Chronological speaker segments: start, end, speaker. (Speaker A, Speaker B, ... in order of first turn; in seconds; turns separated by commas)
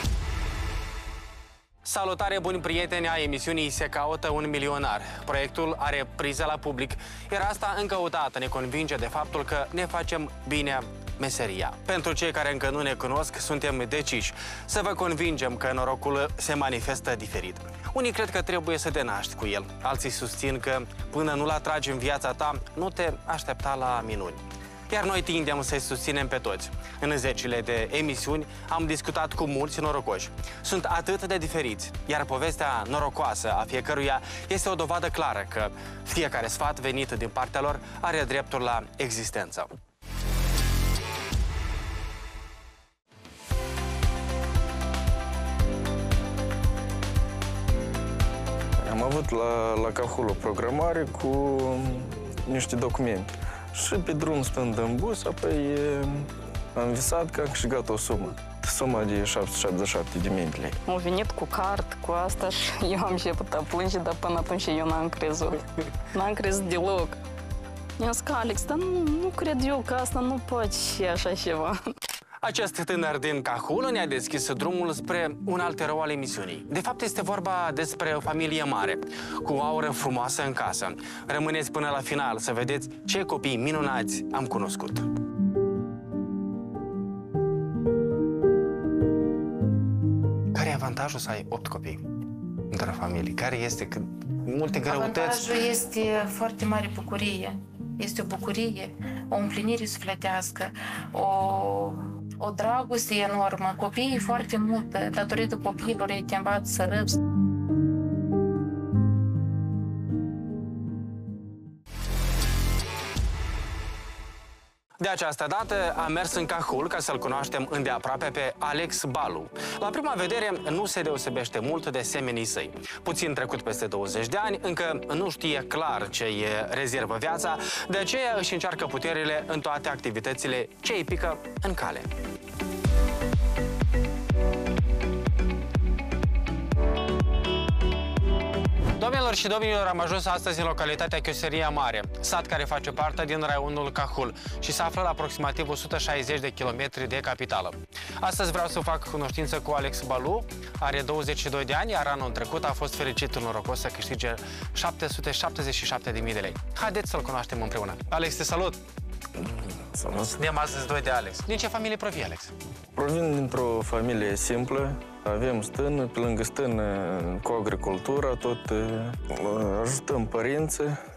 Speaker A: 1.8-39.7, Speaker B: 48.8-60.8, Speaker C: 60.9-65.6, Speaker C: 66.1-67.2, Speaker C: 68.0-71.8, Speaker A: 72.4-85.1, Speaker A: 90.5-92.0, Speaker A: 92.7-95.5, Speaker D: 94.8-107.2, Speaker A: 115.0-132.1, Speaker A: 139.0-158.8, Speaker B: 159.4-160.4, Speaker A: 160.3-162.5, Speaker B: 162.9-171.0